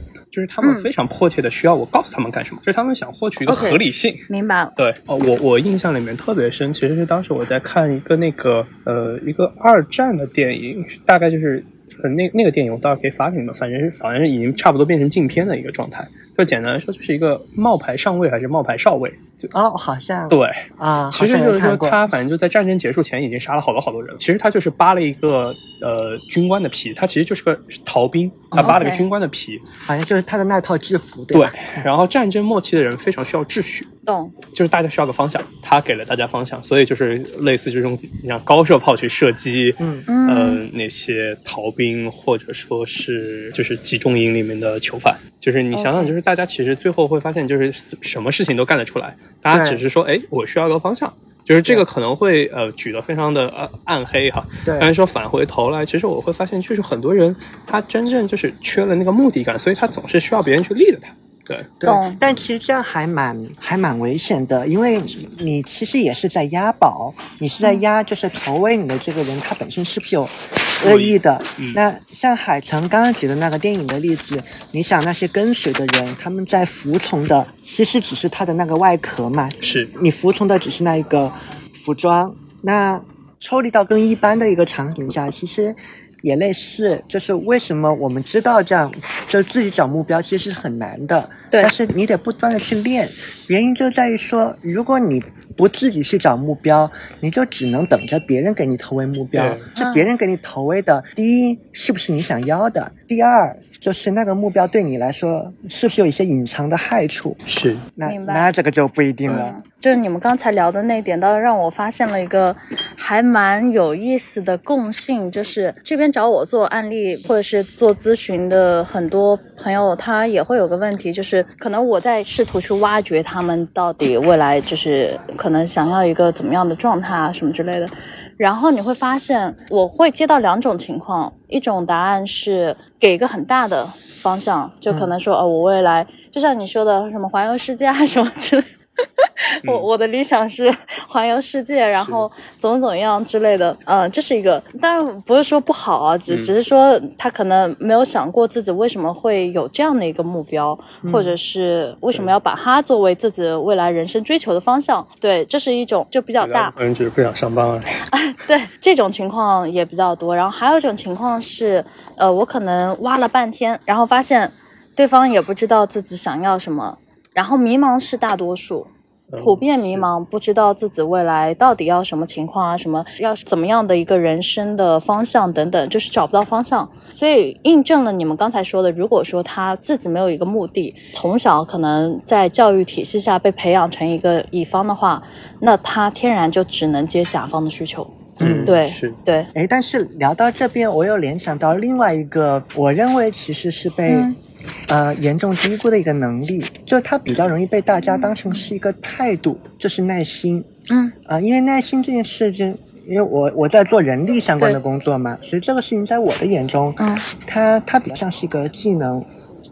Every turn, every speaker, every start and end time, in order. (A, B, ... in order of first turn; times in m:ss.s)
0:00.3-0:04.2 A
0:00.6-0:00.9 B
0:03.5-0:04.7 B
0:04.8-0:19.5 A
0:19.5-0:22.0 C
0:20.3-0:29.6 A
0:28.5-0:28.8 C
0:28.6-0:29.1 B
0:29.8-0:31.9 C
0:31.3-0:33.9 A
0:34.1-0:34.4 B
0:34.5-1:01.7 A
0:39.8-0:40.1 C
0:40.1-0:40.6 B
0:45.7-0:46.1 B
0:49.5-0:49.8 C
0:54.7-0:54.9 C
1:01.8-1:47.4 C
1:01.8-1:02.2 B
1:10.8-1:11.8 A
1:19.6-1:19.9 A
1:39.3-1:39.7 A
1:39.8-1:40.1 B
1:47.5-1:47.9 A
1:48.0-1:49.6 C
1:48.0-1:48.5 B
1:49.3-2:36.7 B
2:31.0-2:31.4 C
2:36.4-2:38.0 A
2:38.1-3:09.5 B
2:49.3-2:50.1 A
3:08.4-3:08.7 C
3:08.4-3:09.2 A
3:09.5-3:14.3 C
3:14.1-3:14.4 B
3:14.9-3:20.7 C
3:20.9-3:21.1 B
3:21.3-3:29.3 C
3:27.0-3:27.3 B